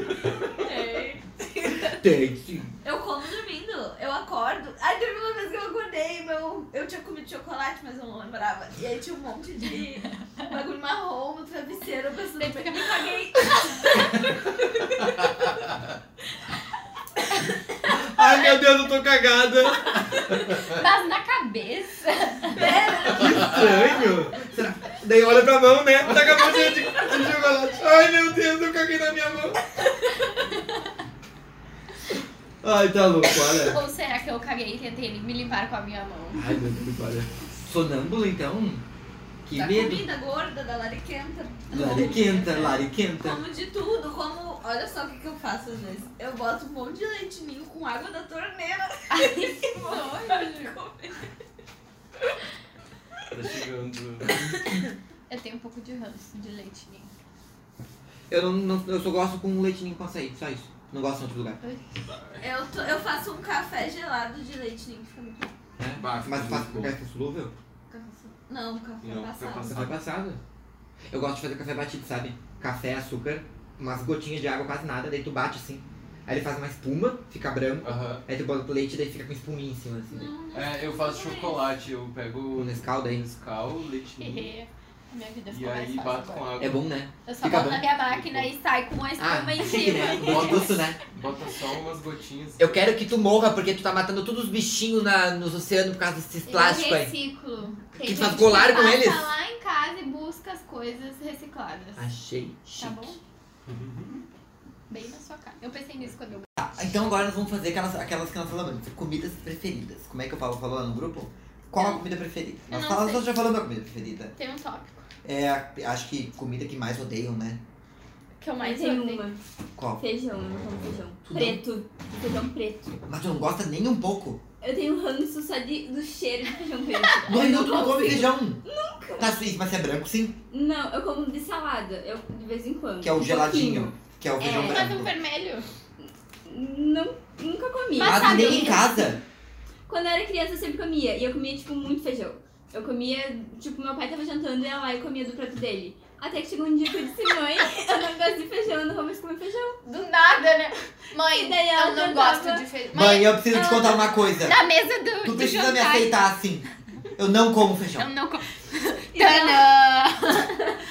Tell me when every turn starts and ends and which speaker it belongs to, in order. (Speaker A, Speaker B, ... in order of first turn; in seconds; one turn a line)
Speaker A: 0.2-2.0
Speaker B: 1.9-2.7
Speaker A: 2.8-15.0
Speaker C: 12.4-14.0
Speaker B: 17.9-20.3
Speaker C: 20.5-22.8
Speaker A: 22.5-24.1
Speaker B: 23.1-29.6
Speaker B: 32.6-33.8
Speaker C: 33.3-36.4
Speaker B: 36.3-38.9
Speaker B: 39.5-40.1
Speaker A: 39.5-51.3
Speaker B: 41.7-43.4
Speaker C: 49.1-50.8
Speaker D: 53.3-54.4
Speaker C: 54.6-57.1
Speaker B: 58.3-61.6
Speaker C: 61.6-62.0
Speaker D: 62.0-62.5
Speaker A: 62.4-65.5
Speaker B: 65.8-67.5
Speaker D: 66.0-67.0
Speaker A: 68.1-69.8
Speaker D: 69.0-70.0
Speaker B: 69.7-70.4
Speaker B: 71.1-80.3
Speaker D: 77.8-78.2
Speaker A: 80.1-81.7
Speaker D: 80.5-84.5
Speaker B: 82.6-83.2
Speaker C: 84.2-86.5
Speaker D: 85.5-86.9
Speaker B: 86.6-87.9
Speaker C: 87.3-90.8
Speaker D: 88.0-88.5
Speaker B: 89.2-91.0
Speaker E: 89.8-90.2
Speaker D: 90.2-92.8
Speaker B: 92.6-97.1
Speaker C: 96.5-102.0
Speaker B: 98.0-99.3
Speaker B: 102.0-103.1
Speaker C: 102.7-103.2
Speaker D: 103.7-104.2
Speaker C: 104.9-106.5
Speaker B: 106.6-114.3
Speaker C: 111.7-112.0
Speaker C: 112.7-113.2
Speaker C: 114.4-115.0
Speaker B: 115.2-117.6
Speaker C: 118.4-119.3
Speaker E: 118.6-119.4
Speaker B: 119.8-120.0
Speaker E: 120.0-123.0
Speaker B: 121.2-121.6
Speaker B: 123.1-124.4
Speaker E: 124.6-129.4
Speaker B: 127.3-128.6
Speaker B: 129.2-130.4
Speaker E: 130.5-134.9
Speaker B: 133.0-135.1
Speaker C: 134.5-135.7
Speaker E: 136.0-138.9
Speaker C: 138.0-138.9
Speaker B: 138.0-139.2
Speaker E: 139.9-149.8
Speaker C: 149.8-156.1
Speaker E: 151.2-152.7
Speaker B: 152.9-154.6
Speaker B: 155.2-156.7
Speaker B: 157.2-158.1
Speaker C: 158.0-160.8
Speaker E: 159.1-159.7